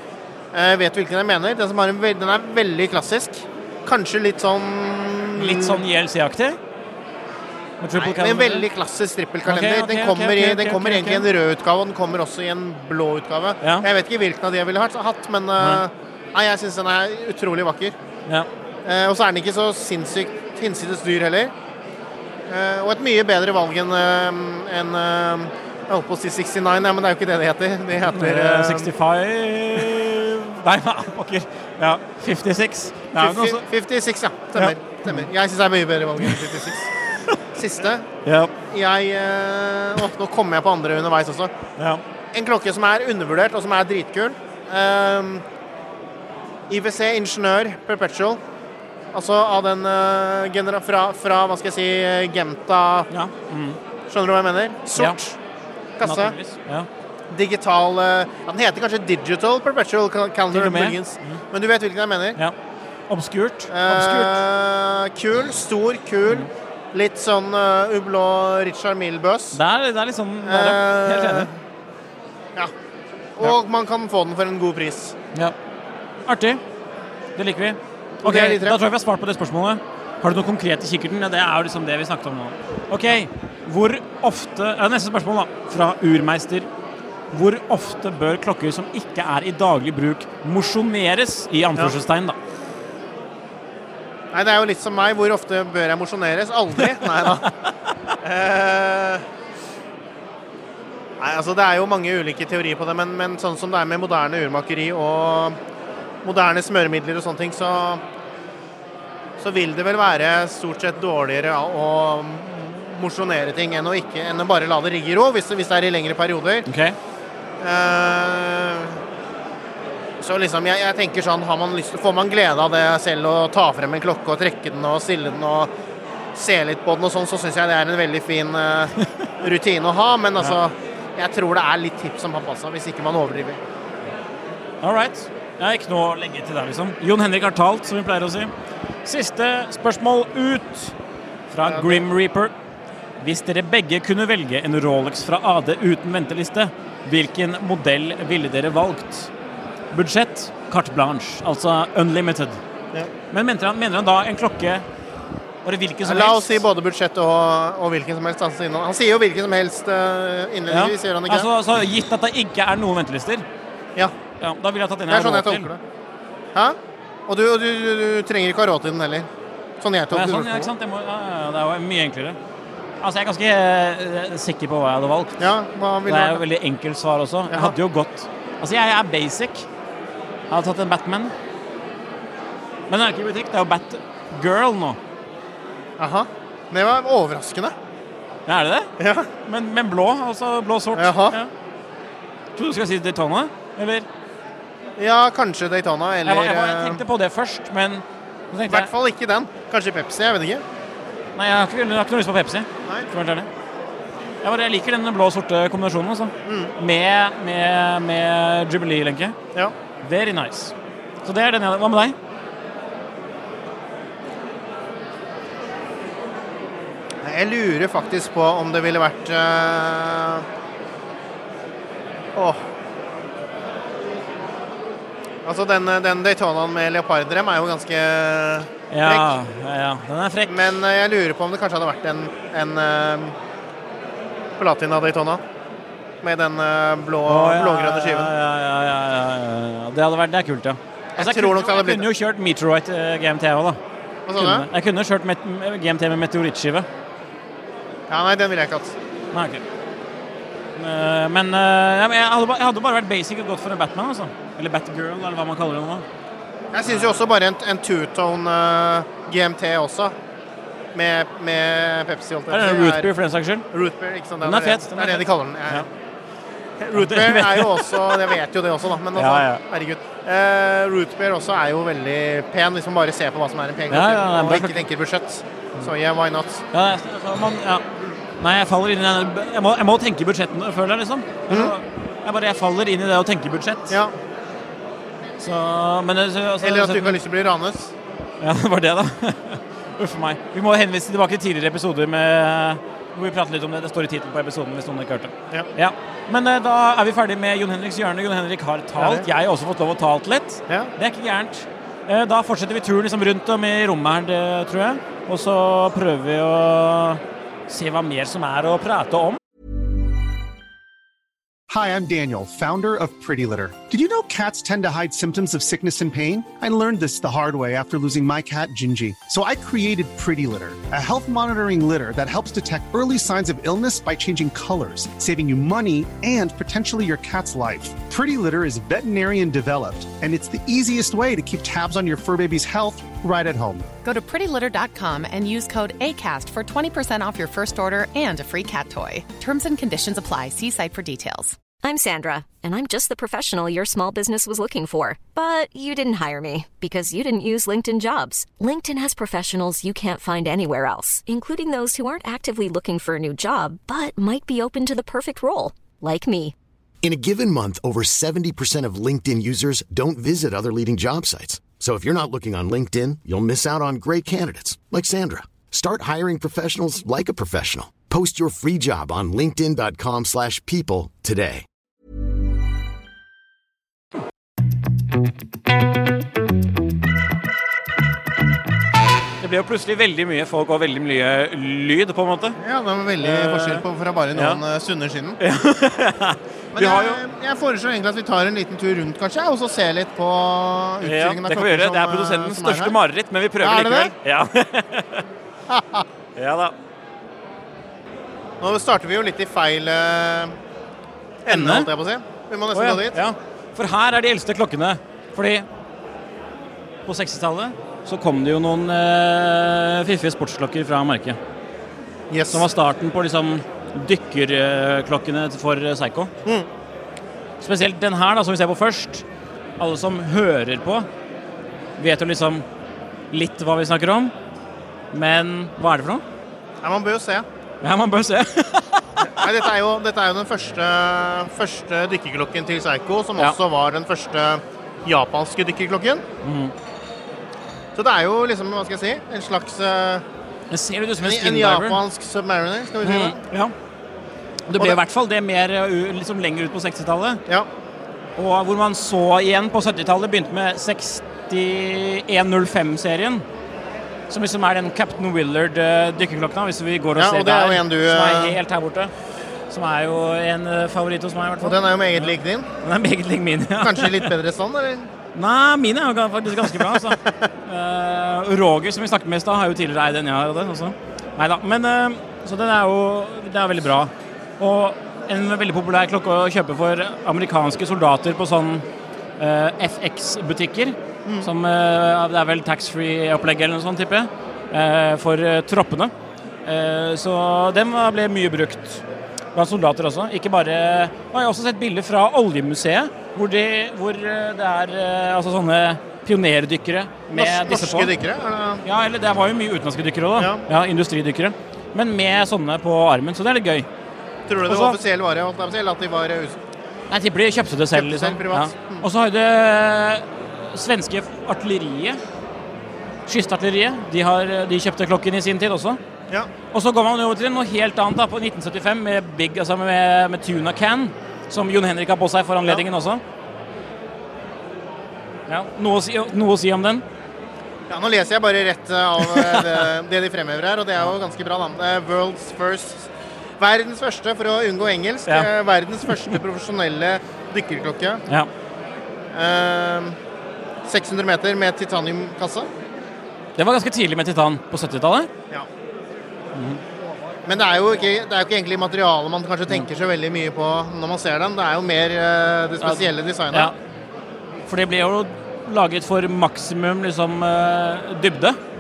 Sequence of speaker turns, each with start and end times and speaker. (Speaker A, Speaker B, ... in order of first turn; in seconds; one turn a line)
Speaker A: 0.5-5.8
Speaker B: 5.4-6.6
Speaker B: 7.8-8.7
Speaker A: 8.0-18.0
Speaker B: 9.5-11.3
Speaker A: 18.9-21.5
Speaker A: 22.5-28.9
Speaker B: 28.0-33.7
Speaker A: 33.2-36.9
Speaker B: 34.6-35.3
Speaker A: 37.5-38.1
Speaker B: 38.2-38.5
Speaker A: 38.7-41.5
Speaker A: 42.3-45.4
Speaker A: 46.7-48.4
Speaker A: 49.1-53.1
Speaker B: 53.1-53.8
Speaker A: 54.1-55.4
Speaker A: 56.0-56.4
Speaker B: 56.0-56.9
Speaker A: 57.3-62.4
Speaker B: 60.5-61.4
Speaker B: 63.1-64.4
Speaker A: 63.7-69.6
Speaker B: 69.5-71.5
Speaker A: 70.4-71.5
Speaker A: 73.4-75.2
Speaker B: 76.3-76.6
Speaker B: 77.4-86.7
Speaker A: 78.2-78.8
Speaker B: 87.3-92.4
Speaker A: 94.3-97.5
Speaker A: 98.2-99.2
Speaker A: 101.2-105.6
Speaker A: 106.2-108.0
Speaker A: 109.4-116.7
Speaker B: 116.7-117.0
Speaker A: 117.6-119.0
Speaker A: 120.2-125.7
Speaker A: 126.3-133.6
Speaker B: 134.8-138.5
Speaker B: 139.1-140.9
Speaker B: 141.5-142.5
Speaker A: 141.7-142.0
Speaker B: 143.2-149.3
Speaker B: 149.9-152.6
Speaker B: 153.3-154.8
Speaker B: 155.7-156.6
Speaker A: 156.0-161.5
Speaker B: 160.7-163.4
Speaker B: 164.4-165.7
Speaker A: 165.1-165.8
Speaker A: 166.6-169.3
Speaker A: 169.8-170.7
Speaker B: 170.1-172.4
Speaker B: 173.0-175.5
Speaker A: 175.4-176.4
Speaker B: 176.1-179.7
Speaker A: 177.5-177.8
Speaker B: 180.5-181.3
Speaker B: 182.9-185.0
Speaker A: 186.0-187.7
Speaker B: 188.5-188.9
Speaker A: 189.0-189.3
Speaker B: 189.5-191.5
Speaker A: 191.0-191.3
Speaker B: 192.6-194.1
Speaker A: 195.0-197.0
Speaker B: 196.2-198.9
Speaker A: 198.7-200.6
Speaker B: 201.4-203.5
Speaker B: 204.4-209.3
Speaker A: 206.5-206.7
Speaker B: 210.0-210.7
Speaker B: 211.2-212.2
Speaker A: 217.2-220.4
Speaker A: 225.4-229.4
Speaker B: 228.9-230.7
Speaker A: 230.5-233.3
Speaker A: 234.6-235.4
Speaker A: 236.2-238.3
Speaker B: 237.3-243.8
Speaker A: 241.2-242.1
Speaker A: 244.3-244.7
Speaker B: 244.4-246.9
Speaker A: 248.1-248.9
Speaker B: 249.3-249.6
Speaker B: 250.8-256.1
Speaker A: 256.7-260.1
Speaker A: 260.9-263.1
Speaker B: 262.5-263.6
Speaker A: 263.7-265.9
Speaker B: 264.4-265.9
Speaker A: 266.8-276.6
Speaker B: 266.9-268.4
Speaker B: 269.2-269.6
Speaker B: 273.9-274.8
Speaker B: 276.7-277.8
Speaker B: 278.4-284.0
Speaker A: 283.9-284.1
Speaker B: 285.4-287.2
Speaker A: 286.6-287.9
Speaker B: 288.4-309.4
Speaker A: 299.0-299.2
Speaker C: 311.7-333.9
Speaker D: 334.0-341.6
Speaker E: 341.8-356.6
Speaker F: 357.0-371.6
Speaker B: 379.4-382.6
Speaker A: 382.6-385.4
Speaker B: 383.2-383.8
Speaker B: 384.4-384.6
Speaker B: 385.4-387.2
Speaker A: 386.8-392.9
Speaker B: 391.0-395.2
Speaker A: 393.6-394.1
Speaker A: 395.7-396.1
Speaker B: 396.4-396.7
Speaker A: 398.6-400.5
Speaker A: 401.5-403.2
Speaker B: 401.5-401.9
Speaker B: 402.7-405.7
Speaker B: 407.1-411.4
Speaker A: 412.3-412.7
Speaker B: 412.5-416.3
Speaker B: 417.6-419.2
Speaker B: 419.8-421.1
Speaker B: 422.0-422.6
Speaker B: 423.3-424.3
Speaker B: 425.1-426.2
Speaker A: 426.8-427.5
Speaker B: 427.8-429.4
Speaker A: 429.3-436.2
Speaker B: 436.4-436.7
Speaker A: 437.9-440.2
Speaker B: 440.7-442.0
Speaker A: 441.2-443.4
Speaker B: 443.0-443.7
Speaker B: 444.7-447.4
Speaker B: 448.4-453.4
Speaker B: 454.3-459.1
Speaker A: 457.1-458.6
Speaker B: 459.7-464.3
Speaker A: 461.6-462.7
Speaker A: 463.8-465.1
Speaker B: 465.4-478.9
Speaker A: 466.7-467.3
Speaker B: 479.4-486.1
Speaker B: 486.7-489.0
Speaker B: 489.6-498.1
Speaker A: 497.3-498.8
Speaker B: 498.9-503.9
Speaker A: 500.4-500.6
Speaker A: 504.5-506.6
Speaker B: 504.6-505.0
Speaker B: 507.1-512.2
Speaker A: 507.9-509.1
Speaker B: 513.3-516.0
Speaker B: 516.7-523.2
Speaker B: 525.5-527.0
Speaker A: 527.9-538.2
Speaker B: 529.2-529.9
Speaker B: 536.1-536.4
Speaker A: 539.3-540.2
Speaker A: 540.9-542.7
Speaker B: 543.6-545.3
Speaker A: 547.5-553.7
Speaker B: 552.8-553.8
Speaker B: 554.7-558.6